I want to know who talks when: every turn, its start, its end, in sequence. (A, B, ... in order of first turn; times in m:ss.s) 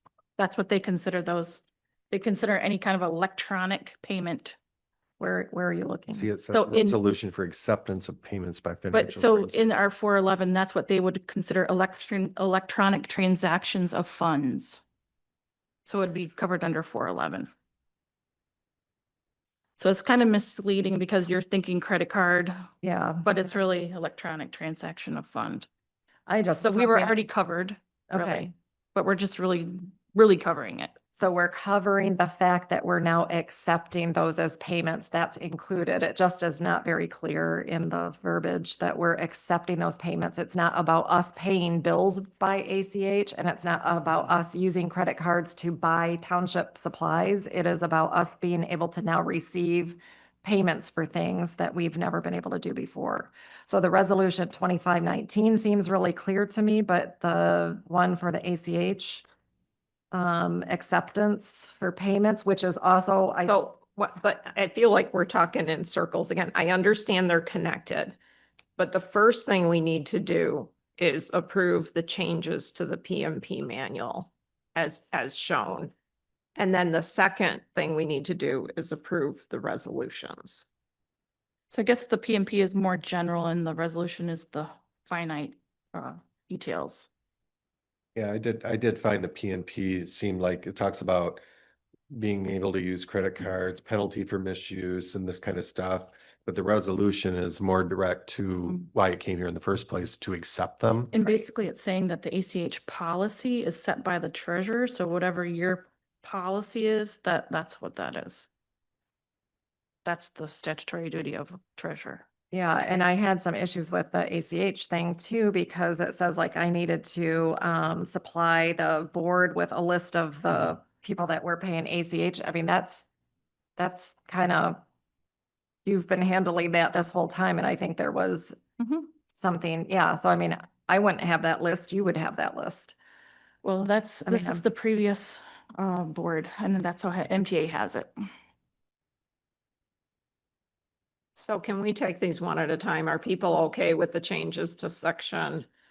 0:00.4-0:04.6 A
0:05.2-0:06.3 B
0:06.1-0:09.6 C
0:06.5-0:07.0 A
0:08.9-0:14.8 A
0:15.8-0:17.5 A
0:19.8-0:22.5 A
0:22.8-0:23.5 B
0:23.2-0:25.7 A
0:26.3-0:27.2 B
0:26.6-0:31.0 A
0:28.1-0:28.5 B
0:31.1-0:59.2 B
1:00.1-1:03.5 B
1:03.4-1:08.2 D
1:08.8-1:15.9 D
1:16.6-1:20.7 D
1:21.7-1:27.1 A
1:28.1-1:31.4 C
1:32.1-1:41.1 C
1:41.1-1:48.5 A
1:50.0-1:52.2 A
1:52.5-2:03.0 B
2:03.8-2:04.8 B
2:05.8-2:08.6 B
2:08.8-2:09.1 A
2:09.4-2:13.0 B
2:13.6-2:18.1 A
2:14.3-2:14.6 B
2:21.4-2:25.7 D